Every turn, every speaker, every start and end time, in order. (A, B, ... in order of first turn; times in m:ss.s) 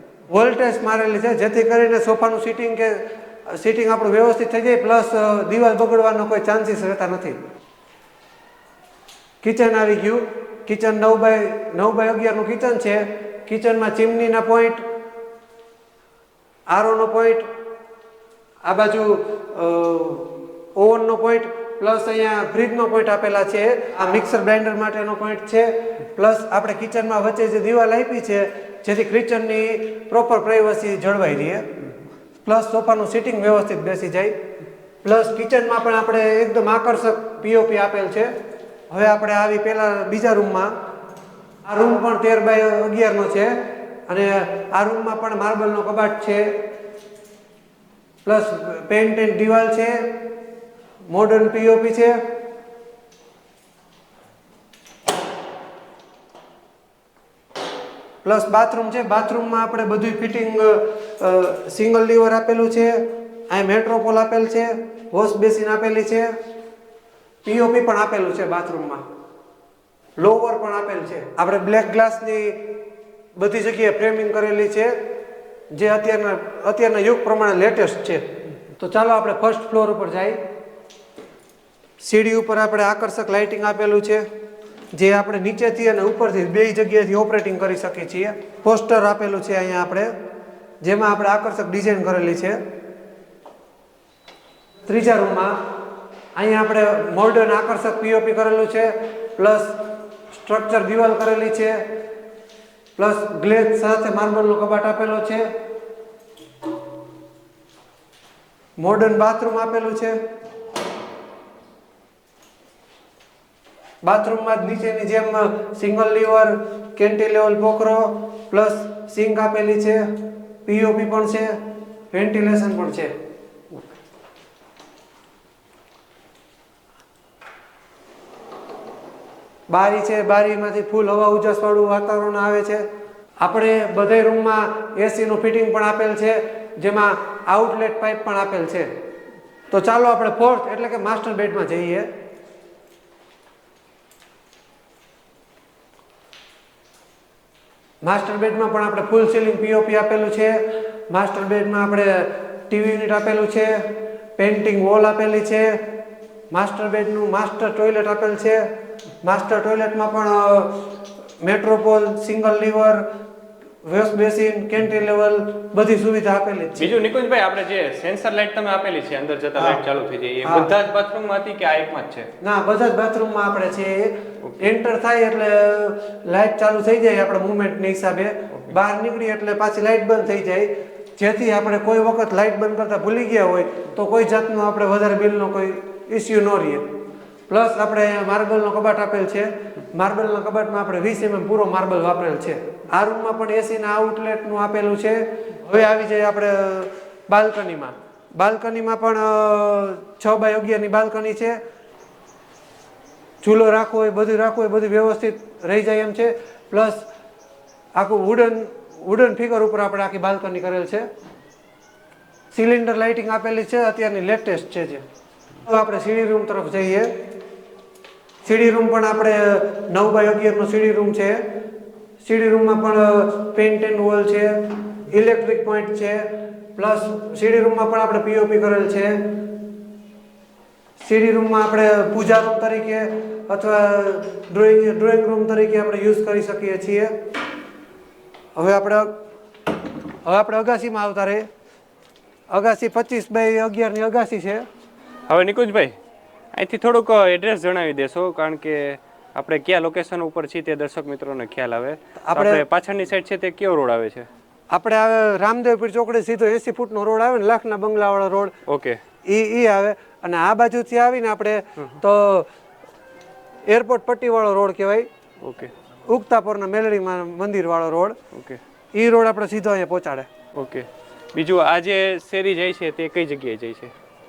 0:00.3-0:07.4 A
0:09.4-0:14.8 A
0:16.7-0:17.5 A
0:18.6-0:31.7 A
0:32.4-0:34.4 A
0:35.0-0:38.3 A
0:38.9-0:40.7 A
0:41.6-0:46.6 A
0:48.2-0:50.2 A
0:51.1-0:52.2 A
0:58.2-1:06.3 A
1:07.4-1:09.0 A
1:10.2-1:12.8 A
1:13.4-1:15.0 A
1:15.7-1:18.2 A
1:18.8-1:20.4 A
1:22.0-1:24.2 A
1:24.9-1:30.1 A
1:30.8-1:32.6 A
1:34.9-1:35.6 A
1:36.4-1:41.8 A
1:43.0-1:45.5 A
1:48.8-1:50.2 A
1:54.0-2:01.6 A
2:02.1-2:03.1 A
2:09.7-2:12.8 A
2:13.4-2:18.9 A
2:19.7-2:22.1 A
2:28.0-2:35.8 A
2:36.5-2:38.6 A
2:39.2-2:43.1 A
2:43.8-2:47.0 A
2:46.8-2:52.3 B
2:49.6-2:49.8 A
2:50.4-2:50.7 A
2:52.4-3:06.8 A
2:54.4-2:54.7 B
3:07.5-3:21.6 A
3:23.4-3:27.0 A
3:28.0-3:31.1 A
3:32.5-3:35.0 A
3:35.6-3:37.1 A
3:38.4-3:41.4 A
3:42.2-3:49.5 A
3:51.0-3:57.1 A
3:58.6-3:59.1 A
4:00.2-4:01.5 A
4:02.5-4:04.6 A
4:05.3-4:06.0 B
4:06.5-4:14.3 B
4:12.2-4:12.6 A
4:14.7-4:18.5 A
4:18.7-4:19.0 B
4:19.3-4:22.5 A
4:23.7-4:25.1 A
4:25.4-4:25.7 B
4:26.1-4:28.2 A
4:28.3-4:28.6 B
4:28.9-4:30.3 A
4:30.6-4:33.9 B